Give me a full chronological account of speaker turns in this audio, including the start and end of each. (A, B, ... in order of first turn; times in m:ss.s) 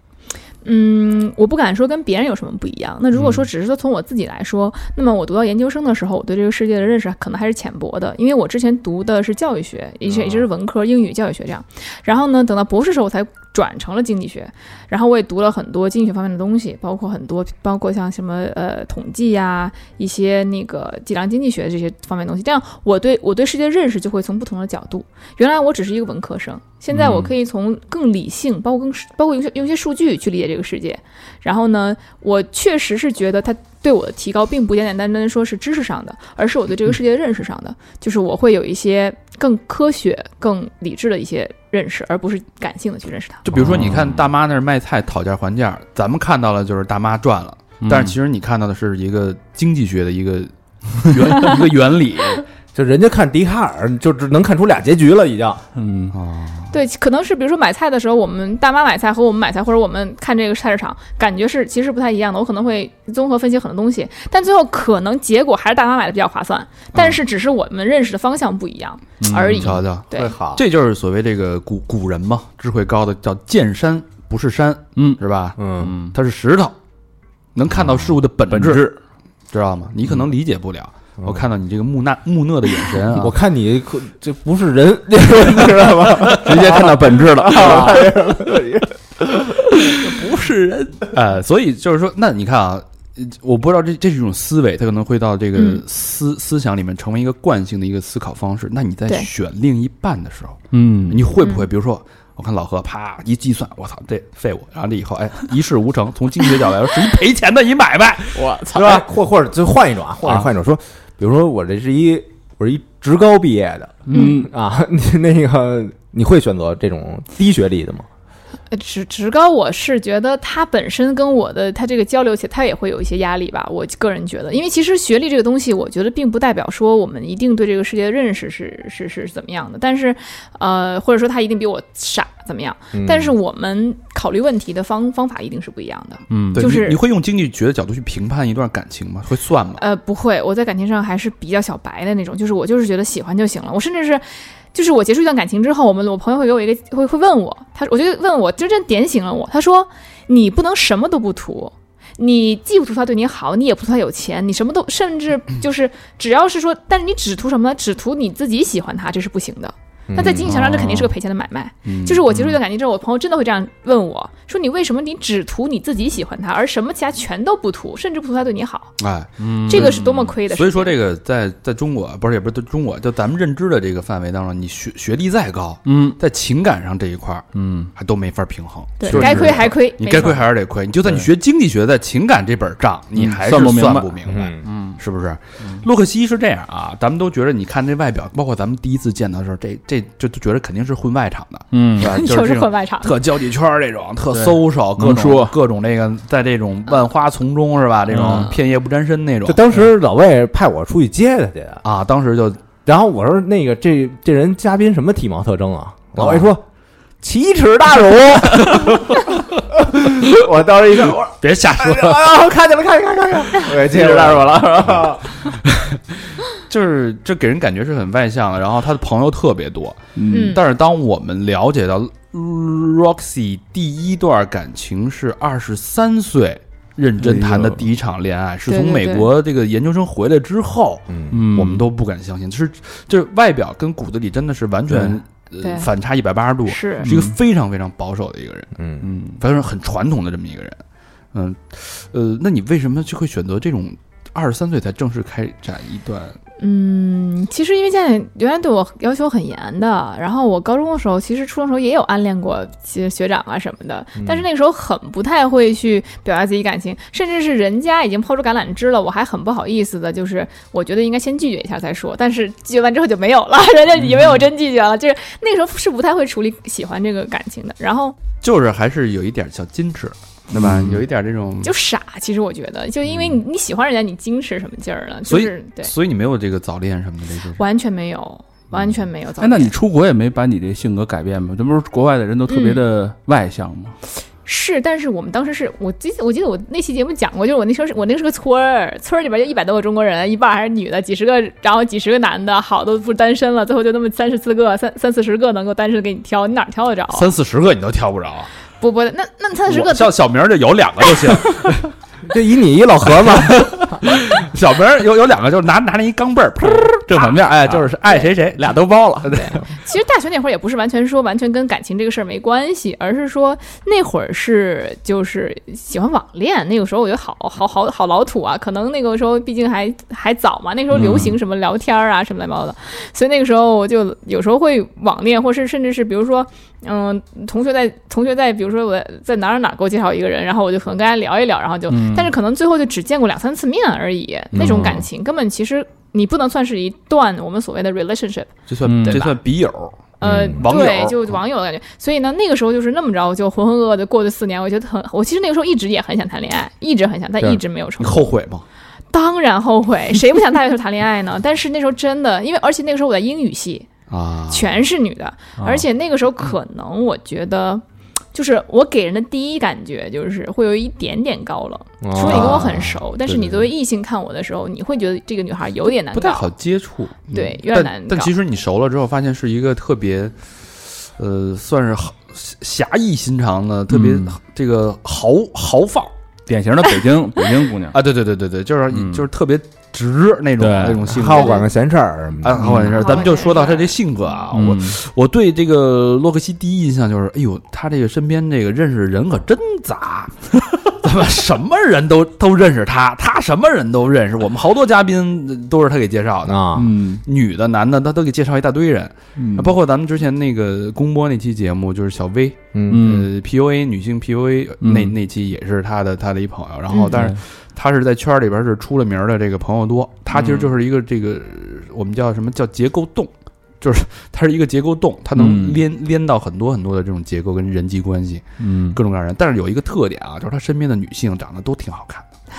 0:00.6-0:43.4 A
0:10.1-0:10.4 B
0:26.9-0:27.3 C
0:43.4-0:52.4 D
0:43.5-0:44.3 C
0:47.8-0:48.2 C
0:52.7-0:55.6 B
0:55.8-0:56.1 C
0:56.1-0:56.7 D
0:56.7-1:10.3 A
1:06.9-1:07.2 D
1:09.2-1:09.8 C
1:09.4-1:15.6 D
1:10.1-1:10.6 B
1:15.0-1:15.2 C
1:15.6-1:15.9 B
1:15.8-1:16.2 C
1:16.1-1:16.8 D
1:17.5-1:18.8 D
1:18.5-1:19.0 C
1:19.5-1:23.4 D
1:21.2-1:21.5 B
1:23.1-1:28.9 B
1:26.3-1:28.5 C
1:27.6-1:27.9 D
1:29.3-1:31.0 C
1:31.1-1:49.0 D
1:35.5-1:35.8 A
1:40.7-1:41.3 C
1:41.4-1:41.7 A
1:48.4-1:49.0 C
1:48.7-1:58.1 B
1:54.1-1:54.5 C
1:54.1-1:54.4 A
1:58.7-2:17.0 A
2:12.9-2:13.3 B
2:16.3-2:16.7 C
2:16.5-2:19.8 D
2:19.8-2:49.0 A
2:40.1-2:40.5 B
2:40.5-2:41.1 C
2:41.8-2:42.3 D
2:49.0-3:19.6 D
2:49.4-2:50.3 C
2:49.6-2:51.0 A
2:55.9-2:56.2 C
2:57.5-2:57.9 C
2:59.0-3:00.5 A
2:59.1-2:59.6 C
3:03.2-3:05.0 C
3:04.3-3:04.6 B
3:11.7-3:12.2 C
3:12.0-3:13.2 A
3:14.3-3:15.6 C
3:18.1-3:18.5 C
3:19.4-3:21.8 B
3:21.8-3:22.6 D
3:22.8-3:26.6 B
3:26.2-3:26.5 D
3:27.2-3:35.3 B
3:31.4-3:32.2 D
3:33.7-3:35.2 C
3:36.5-3:58.7 D
3:40.2-3:40.6 C
3:40.3-3:40.6 A
3:47.2-3:47.9 C
3:48.6-3:49.3 A
3:51.1-3:51.4 B
3:51.3-3:51.9 C
3:54.9-3:55.2 C
3:55.6-3:55.9 A
3:56.6-3:57.1 A
3:57.0-3:57.3 C
3:58.8-3:59.1 B
3:59.0-3:59.4 C
3:59.4-4:00.8 D
4:01.3-4:06.4 D
4:06.6-4:28.2 A
4:14.2-4:14.4 B
4:28.4-4:31.7 D
4:30.5-4:31.0 C
4:31.6-4:35.9 A
4:33.1-4:33.3 D
4:35.2-4:37.6 D
4:37.6-4:39.7 A
4:39.4-4:44.0 C
4:42.5-4:42.8 A
4:44.4-4:57.3 A
4:57.1-4:58.5 D
4:58.8-5:00.2 A
4:59.7-5:01.8 D
5:02.3-5:04.0 B
5:03.7-5:09.6 D
5:07.1-5:07.9 C
5:08.6-5:09.3 C
5:09.3-5:39.4 A
5:20.9-5:21.4 C
5:31.9-5:32.3 C
5:34.5-5:35.0 D
5:34.6-5:34.9 B
5:38.7-5:41.4 D
5:38.8-5:39.2 C
5:40.2-5:48.4 A
5:40.2-5:40.6 B
5:48.0-5:48.6 D
5:49.1-5:53.9 A
5:54.1-5:54.8 D
5:54.5-5:57.8 A
5:55.6-5:55.8 C
5:58.3-6:06.5 A
6:02.0-6:02.9 B
6:02.2-6:03.5 D
6:06.1-6:16.1 D
6:07.3-6:08.3 A
6:13.9-6:14.3 C
6:16.5-6:18.0 C
6:17.9-6:21.6 D
6:18.9-6:19.2 C
6:20.6-6:21.1 C
6:21.0-6:22.9 B
6:21.4-6:21.6 A
6:22.4-7:02.3 D
6:22.6-6:23.0 C
6:22.9-6:24.0 A
6:24.5-6:25.0 C
6:36.4-6:36.9 B
6:36.7-6:37.2 C
6:39.4-6:39.7 C
6:42.7-6:43.1 B
6:42.9-6:43.3 C
6:44.8-6:45.1 C
6:46.9-6:47.2 A
6:47.1-6:47.4 C
6:50.3-6:50.7 C
6:55.4-6:55.8 C
6:58.6-6:59.0 C